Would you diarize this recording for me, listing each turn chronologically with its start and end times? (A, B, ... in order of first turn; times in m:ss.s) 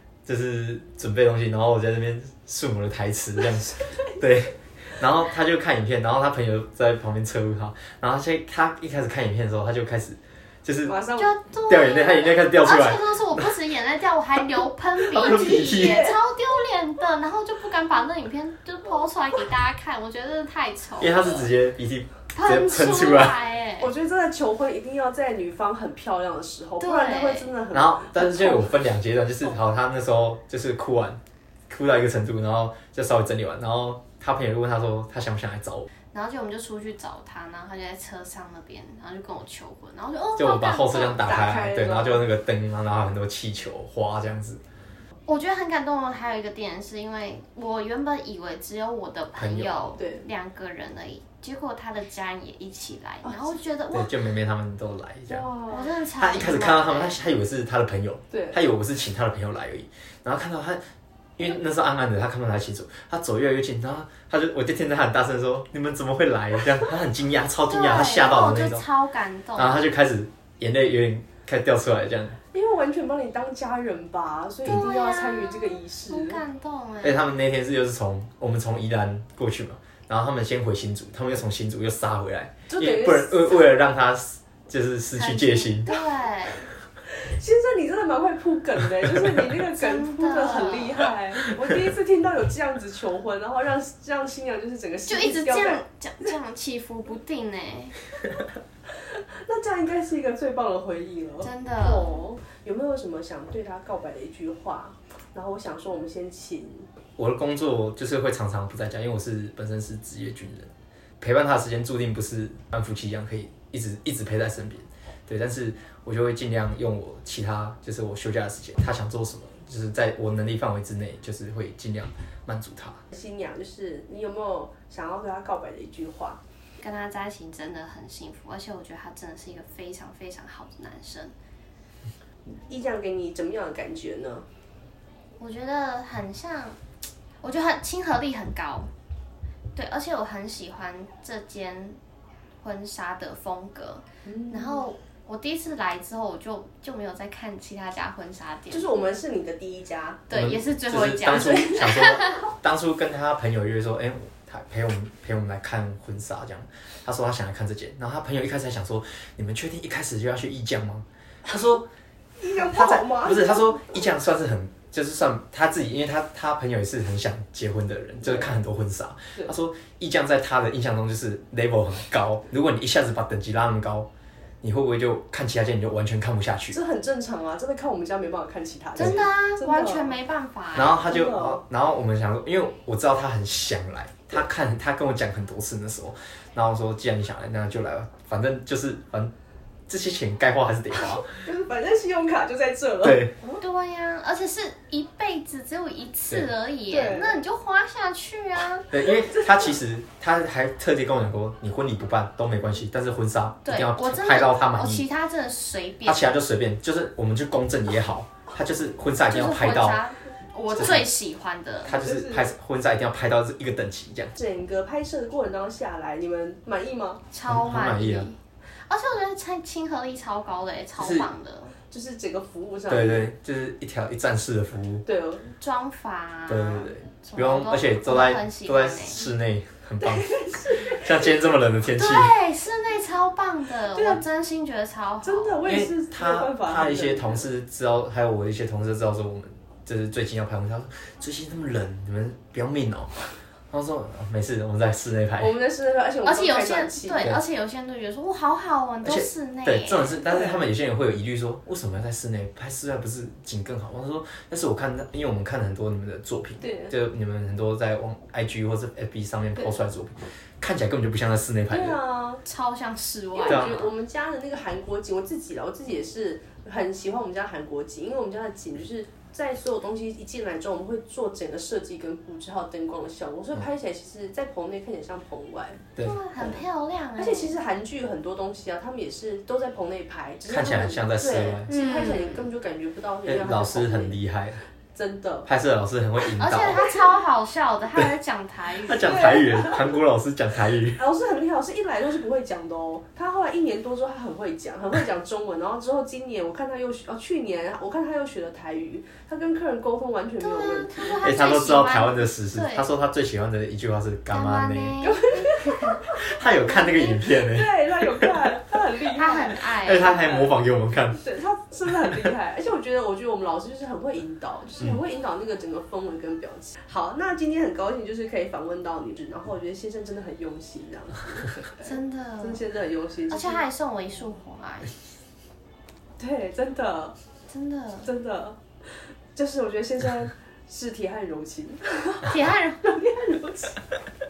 0:00.2-0:11.0 A
0:10.8-0:11.3 B
0:11.2-0:21.5 C
0:11.7-0:13.5 A
0:15.0-0:16.1 A
0:15.2-0:16.2 B
0:21.0-0:23.4 A
0:22.3-0:23.9 C
0:23.8-0:28.7 B
0:26.8-0:27.5 C
0:27.7-0:35.9 A
0:36.1-0:41.2 C
0:40.4-0:44.6 A
0:41.1-0:42.2 B
0:45.3-0:54.2 C
0:49.4-0:49.7 A
0:50.0-0:50.2 B
0:53.2-0:53.6 B
0:53.9-0:55.5 A
0:55.3-0:55.8 B
0:55.7-0:57.2 C
0:56.2-1:00.8 A
0:58.3-0:58.6 B
1:01.4-1:08.8 A
1:07.7-1:09.9 C
1:09.6-1:12.4 A
1:12.5-1:16.4 B
1:14.6-1:17.3 C
1:17.0-1:26.0 A
1:22.7-1:23.8 B
1:25.1-1:26.7 C
1:27.1-1:36.3 B
1:29.7-1:31.1 C
1:35.1-1:38.0 C
1:39.0-1:46.9 B
1:41.4-1:42.2 C
1:47.2-2:03.0 A
2:03.1-2:06.4 B
2:06.8-2:11.3 C
2:12.6-2:14.5 B
2:15.4-2:16.8 C
2:17.4-2:18.9 C
2:19.7-2:22.0 C
2:22.6-2:28.9 C
2:24.2-2:24.8 B
2:28.7-2:30.2 B
2:30.3-2:32.5 C
2:30.3-2:41.9 A
2:42.4-2:44.0 B
2:42.7-2:54.1 A
2:48.2-2:48.6 B
2:54.6-2:56.8 A
2:56.7-3:00.1 B
2:59.0-3:01.0 C
3:00.7-3:09.3 A
3:01.0-3:01.6 B
3:09.9-3:11.3 A
3:11.3-3:13.6 B
3:13.0-3:13.3 A
3:13.6-3:18.9 C
3:16.9-3:17.4 B
3:18.9-3:25.0 A
3:23.6-3:26.4 C
3:26.0-3:30.0 A
3:29.2-3:32.0 C
3:30.7-3:31.1 A
3:31.8-3:34.3 A
3:31.9-3:32.5 B
3:34.4-3:37.2 B
3:37.3-3:41.8 C
3:37.4-3:38.3 A
3:41.0-3:41.3 A
3:41.9-3:43.3 B
3:42.9-3:45.0 A
3:45.0-3:45.5 B
3:45.6-3:49.2 C
3:46.5-3:52.3 A
3:50.0-3:51.1 B
3:52.0-3:55.6 C
3:53.9-3:54.2 B
3:55.2-3:57.5 B
3:55.6-4:05.6 A
4:05.4-4:07.3 B
4:06.2-4:10.2 C
4:09.0-4:22.0 A
4:10.3-4:10.6 B
4:16.6-4:16.9 B
4:21.7-4:22.4 B
4:22.4-4:23.9 C
4:23.3-4:35.8 B
4:23.4-4:23.8 A
4:36.0-4:37.6 C
4:37.2-4:44.2 B
4:40.5-4:41.8 A
4:41.7-4:42.4 C
4:43.2-4:44.6 A
4:44.9-4:45.5 B
4:45.5-4:46.9 A
4:46.3-4:49.6 C
4:48.8-4:51.0 A
4:49.0-4:50.0 B
4:51.0-5:01.2 B
5:00.4-5:02.9 C
5:01.2-5:05.0 A
5:04.3-5:06.0 C
5:05.0-5:10.6 B
5:06.1-5:08.5 A
5:09.0-5:10.2 C
5:09.7-5:11.2 A
5:11.2-5:23.6 B
5:21.8-5:22.6 C
5:23.3-5:24.9 C
5:26.2-5:27.2 B
5:27.5-5:28.1 C
5:28.0-5:28.6 B
5:29.3-5:33.8 B
5:32.2-5:32.8 C